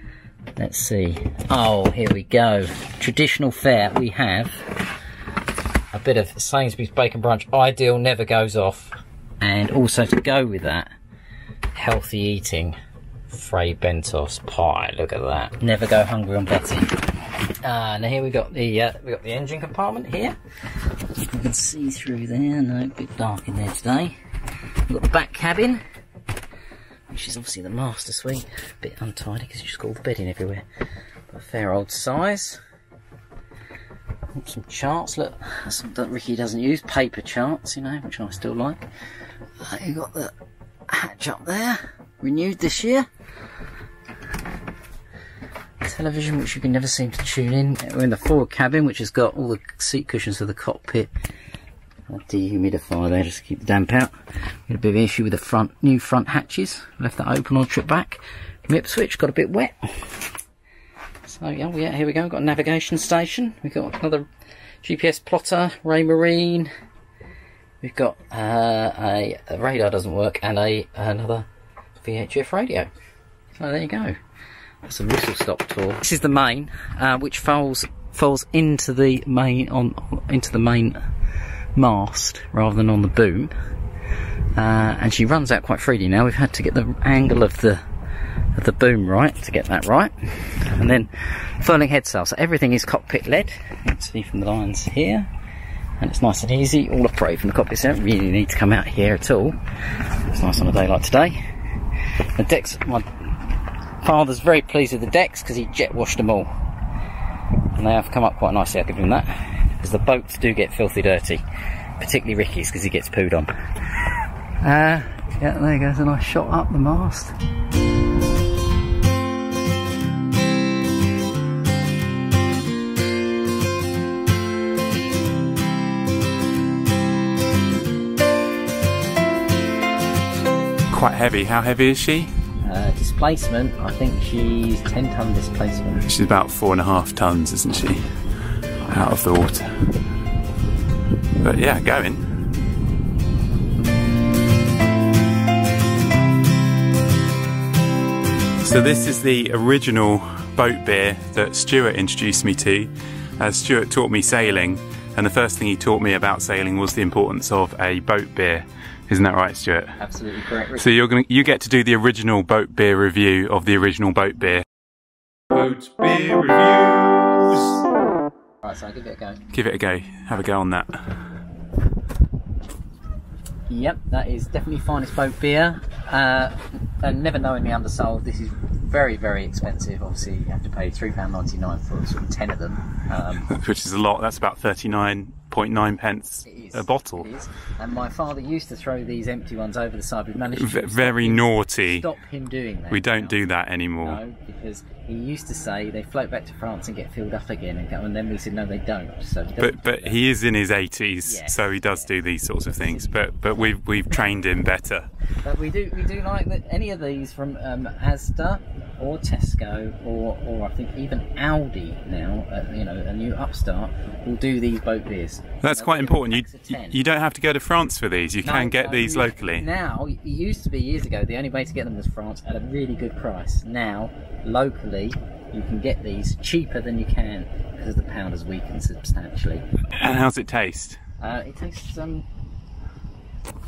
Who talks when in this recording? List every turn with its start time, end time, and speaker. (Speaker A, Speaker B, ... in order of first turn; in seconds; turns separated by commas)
Speaker A: 0.6-4.8, Speaker A: 5.9-10.9, Speaker A: 11.7-12.8, Speaker A: 13.3-17.0, Speaker A: 17.6-20.4, Speaker A: 21.2-24.1, Speaker A: 24.9-25.8, Speaker A: 27.1-30.6, Speaker A: 31.3-32.6, Speaker A: 34.3-38.8, Speaker A: 39.6-40.3, Speaker A: 40.9-43.1, Speaker A: 45.8-51.1, Speaker A: 52.1-54.1, Speaker A: 54.7-60.2, Speaker A: 61.2-64.2, Speaker A: 64.8-66.7, Speaker A: 67.8-71.5, Speaker A: 72.0-72.9, Speaker A: 73.6-74.1, Speaker A: 74.8-81.0, Speaker A: 81.7-83.5, Speaker A: 84.5-87.8, Speaker A: 88.5-95.3, Speaker A: 96.0-101.4, Speaker A: 102.0-106.5, Speaker A: 107.8-111.4, Speaker A: 112.0-114.1, Speaker A: 114.6-117.3, Speaker B: 130.9-132.3, Speaker A: 132.6-136.1, Speaker B: 136.0-138.2, Speaker B: 138.8-139.9, Speaker B: 141.4-142.2, Speaker B: 148.6-160.0, Speaker A: 160.0-160.9, Speaker B: 160.8-164.7, Speaker B: 165.5-167.8, Speaker A: 168.6-169.4, Speaker B: 169.5-171.0, Speaker A: 173.7-183.5, Speaker B: 183.5-187.3, Speaker A: 186.4-193.4, Speaker B: 190.5-192.1, Speaker B: 192.9-194.2, Speaker A: 194.0-200.2, Speaker B: 199.6-205.1, Speaker A: 201.2-202.1, Speaker A: 202.8-203.4, Speaker A: 205.4-217.0, Speaker B: 215.6-219.7, Speaker A: 218.4-229.6, Speaker B: 229.9-231.0, Speaker A: 231.2-232.2